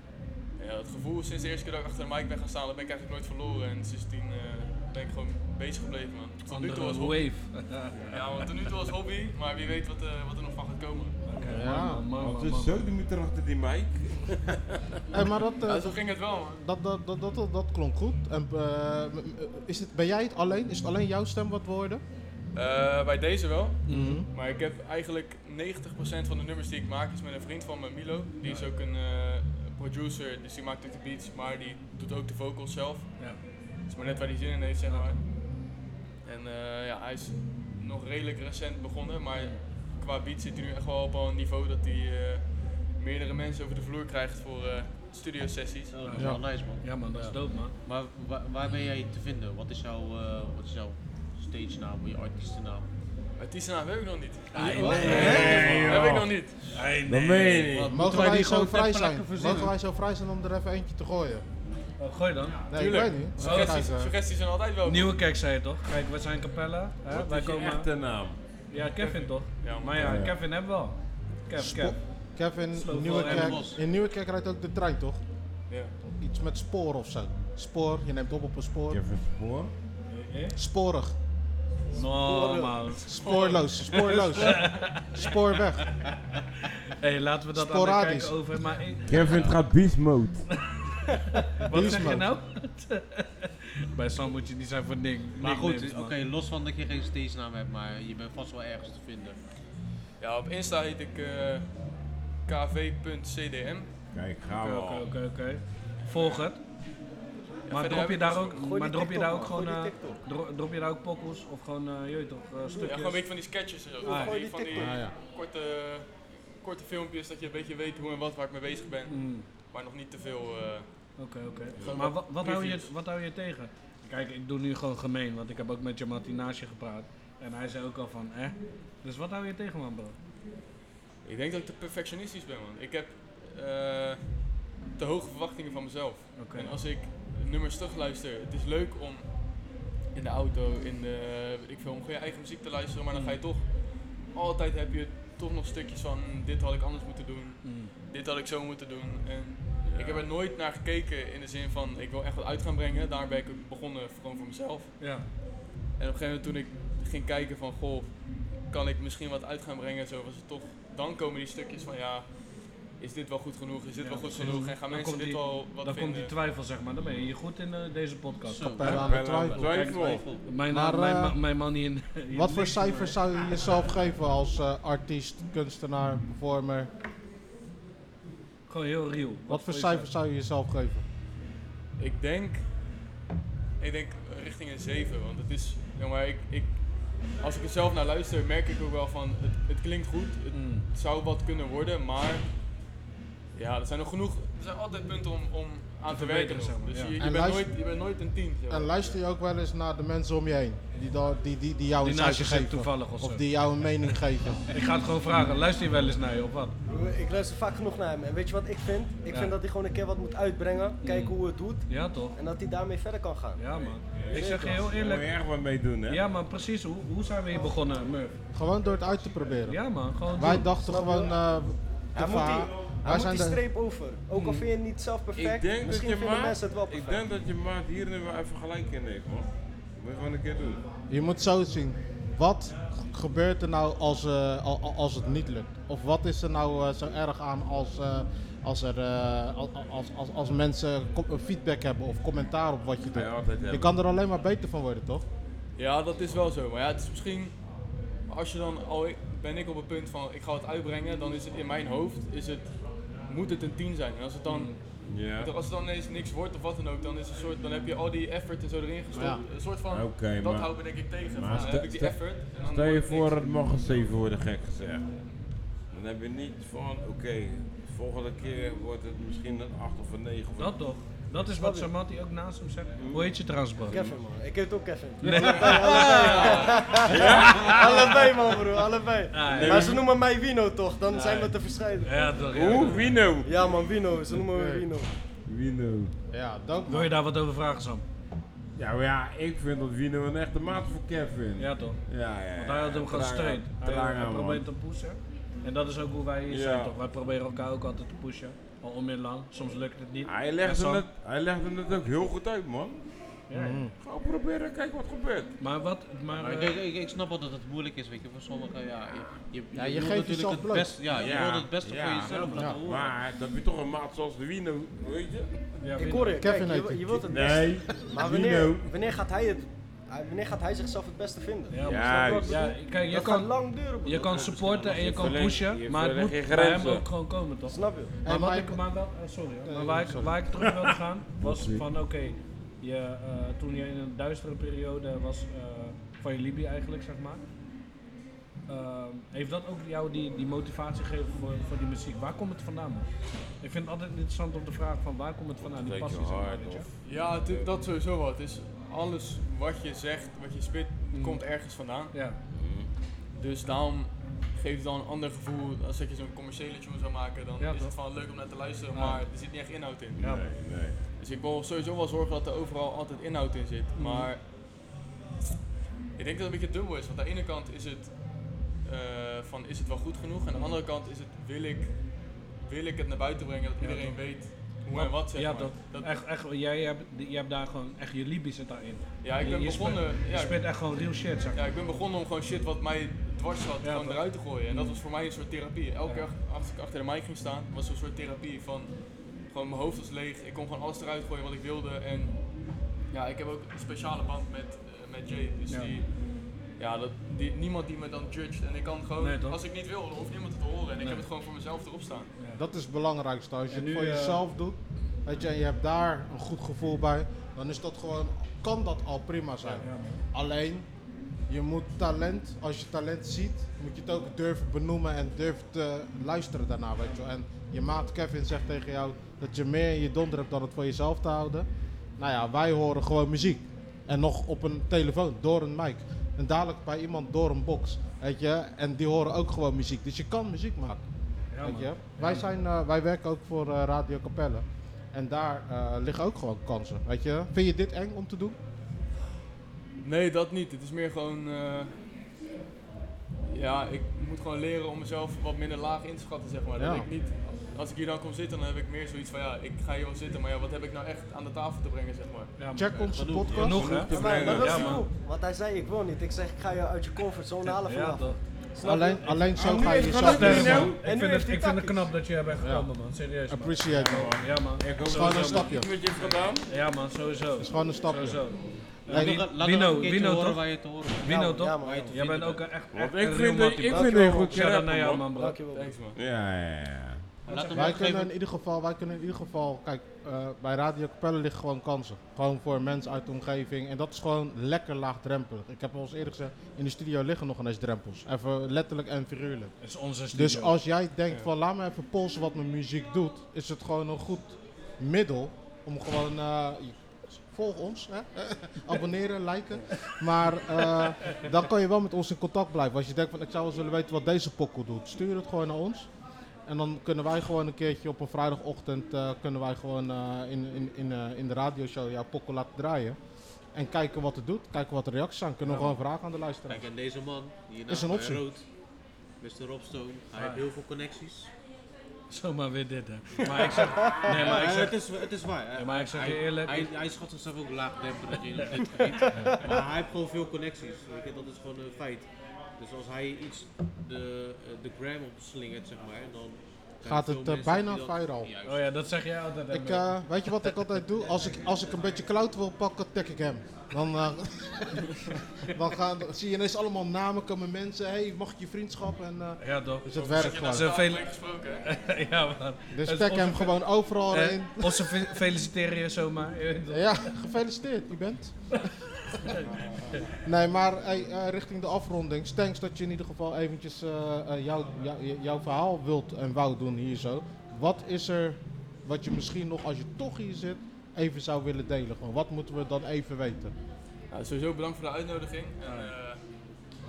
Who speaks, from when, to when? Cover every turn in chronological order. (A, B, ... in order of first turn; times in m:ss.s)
0:00.6-0:07.5 A
0:06.5-0:08.5 B
0:08.1-0:11.4 A
0:11.2-0:12.8 B
0:11.5-0:12.0 C
0:12.2-0:14.6 D
0:15.1-0:22.0 C
0:15.6-0:16.6 A
0:22.5-0:35.2 A
0:23.9-0:24.2 B
0:23.9-0:24.3 C
0:28.4-0:28.7 B
0:33.2-0:33.4 B
0:34.8-0:35.1 B
0:36.2-0:45.9 A
0:45.9-0:52.9 E
0:46.0-0:47.7 B
0:46.2-0:46.4 C
0:53.4-0:56.6 A
0:54.5-0:55.8 B
0:54.6-0:56.0 E
0:54.8-0:55.4 C
0:55.0-0:58.0 D
0:56.7-0:57.8 B
0:57.7-0:59.7 E
0:57.9-1:01.4 C
1:02.0-1:02.6 B
1:02.4-1:02.9 E
1:02.7-1:04.2 C
1:02.7-1:05.1 A
1:03.4-1:03.8 B
1:04.8-1:07.9 B
1:07.1-1:08.4 D
1:08.7-1:12.0 B
1:09.0-1:10.2 A
1:10.0-1:10.4 D
1:11.5-1:15.2 C
1:12.7-1:13.7 B
1:13.1-1:13.8 E
1:15.7-1:15.9 A
1:16.0-1:19.0 C
1:18.9-1:19.7 D
1:20.1-1:20.6 B
1:20.6-1:21.2 C
1:21.9-1:25.4 B
1:22.1-1:23.0 F
1:23.0-1:25.9 C
1:23.2-1:23.5 A
1:26.9-1:29.4 B
1:27.5-1:28.4 C
1:29.1-1:30.7 D
1:29.1-1:29.7 E
1:31.5-1:36.2 B
1:31.7-1:32.4 C
1:35.4-1:39.4 E
1:40.2-1:43.9 A
1:44.1-1:45.2 D
1:44.6-1:46.6 B
1:46.0-1:46.4 A
1:47.7-1:48.6 A
1:47.7-1:53.3 B
1:48.5-1:50.2 F
1:52.8-2:01.2 A
1:54.0-1:55.1 F
1:54.0-1:54.4 B
1:54.7-1:55.1 C
1:59.1-1:59.5 B
2:01.2-2:10.2 B
2:01.8-2:02.0 D
2:01.8-2:02.9 A
2:11.2-2:34.9 A
2:16.3-2:16.8 B
2:23.1-2:23.4 B
2:27.6-2:27.9 B
2:29.8-2:30.3 D
2:35.0-2:35.2 B
2:36.0-2:46.3 A
2:44.0-2:49.0 B
2:48.4-2:50.4 E
2:48.6-2:49.6 C
2:48.9-2:50.3 D
2:49.6-2:53.2 B
2:50.7-2:51.4 C
2:52.3-2:56.9 C
2:58.7-3:00.1 B
2:59.5-3:01.0 C
3:02.0-3:02.8 A
3:03.8-3:12.5 A
3:10.5-3:10.8 B
3:13.5-3:19.2 A
3:16.0-3:17.2 B
3:17.2-3:17.7 C
3:18.7-3:24.6 C
3:22.0-3:23.4 B
3:24.7-3:26.7 B
3:26.9-3:34.8 F
3:29.3-3:29.6 B
3:31.0-3:32.3 B
3:33.6-3:35.3 B
3:34.1-3:36.2 D
3:36.0-3:38.3 B
3:38.5-3:43.6 C
3:39.6-3:40.7 B
3:40.8-3:41.4 F
3:42.1-3:47.3 F
3:44.3-3:44.7 B
3:45.4-3:50.8 D
3:51.1-4:05.2 C
4:03.1-4:03.9 D
4:05.8-4:24.1 A
4:14.4-4:14.8 B
4:15.0-4:15.5 D
4:19.1-4:19.4 C
4:19.8-4:25.1 D
4:21.5-4:21.8 B
4:25.8-4:30.9 D
4:30.6-4:34.0 B
4:31.5-4:31.9 F
4:33.0-4:34.2 D
4:33.9-4:45.1 F
4:35.2-4:37.9 B
4:35.2-4:38.3 D
4:39.3-4:40.0 B
4:39.4-4:40.0 D
4:41.1-4:43.2 B
4:42.4-4:44.1 D
4:44.5-4:44.8 C
4:45.4-4:46.1 D
4:46.3-4:47.1 C
4:46.9-4:48.0 B
4:48.8-4:54.7 D
4:51.6-5:01.0 B
4:56.5-4:57.0 D
5:00.2-5:03.1 D
5:03.5-5:03.8 B
5:03.5-5:03.9 C
5:04.0-5:05.5 D
5:05.6-5:06.8 B
5:06.3-5:13.2 E
5:09.7-5:11.1 C
5:11.1-5:15.6 D
5:12.6-5:12.8 C
5:15.8-5:16.4 B
5:16.0-5:25.4 F
5:16.4-5:17.3 C
5:17.3-5:18.9 D
5:21.7-5:37.4 B
5:21.8-5:22.6 D
5:24.3-5:27.1 D
5:27.6-5:28.1 F
5:28.2-5:28.8 C
5:29.6-5:30.4 C
5:31.4-5:31.9 D
5:38.7-5:43.1 B
5:43.6-5:46.9 B
5:45.6-5:47.7 D
5:47.0-5:52.2 A
5:51.1-5:52.4 B
5:52.6-5:52.9 D
5:53.3-6:00.2 A
5:57.6-5:58.0 B
5:58.9-5:59.2 B
6:00.2-6:01.0 D
6:00.2-6:00.5 B
6:00.8-6:04.5 A
6:03.9-6:04.3 B
6:06.2-6:16.2 A
6:13.8-6:21.6 B
6:19.2-6:20.7 A
6:21.5-6:36.1 A
6:23.8-6:25.0 B
6:35.7-6:36.0 B
6:36.7-6:42.3 A
6:39.2-6:39.6 B
6:41.0-6:41.2 B
6:42.5-6:50.8 C
6:43.7-6:44.4 B
6:49.7-6:50.2 B
6:51.5-7:01.7 C
7:02.2-7:11.0 C
7:11.5-7:12.5 B
7:11.6-7:18.6 C
7:20.0-7:22.0 A
7:23.5-7:32.6 A
7:26.8-7:27.1 C
7:32.6-7:35.0 B
7:32.7-7:33.8 C
7:33.1-7:33.6 E
7:33.4-7:35.0 D
7:34.0-7:42.1 F
7:37.8-7:38.4 B
7:38.8-7:40.9 C
7:39.5-7:41.0 D
7:40.1-7:45.7 B
7:42.6-7:44.4 C
7:44.0-7:46.6 D
7:45.0-7:45.9 C
7:46.2-7:55.6 B
7:47.6-7:48.6 C
7:49.1-7:52.6 E
7:49.1-7:49.4 C
7:51.2-7:52.2 F
7:51.8-7:52.1 D
7:52.9-7:55.3 D
7:53.9-7:54.5 F
7:55.3-7:56.0 F
7:55.7-7:56.2 A
7:56.1-7:57.2 D
7:57.4-7:58.2 E
7:57.5-7:58.3 B
7:57.7-8:09.7 C
8:09.8-8:10.8 B
8:10.3-8:26.1 C
8:26.6-8:33.2 C
8:33.7-8:36.8 C
8:35.6-8:35.9 B
8:36.7-8:38.6 E
8:37.9-8:38.5 C
8:39.4-8:41.5 E
8:40.3-8:40.6 B
8:42.3-8:45.0 B
8:43.5-8:44.6 F
8:44.2-8:59.0 E
8:45.7-8:46.9 B
8:49.0-8:49.8 F
8:57.0-8:58.5 C
8:58.6-9:00.7 B
8:59.7-9:10.9 C
9:09.6-9:13.8 B
9:10.2-9:11.8 A
9:12.9-9:15.3 C
9:14.3-9:17.2 B
9:16.9-9:18.9 C
9:19.2-9:19.6 B
9:20.4-9:33.7 C
9:34.3-9:36.4 A
9:35.8-9:36.1 B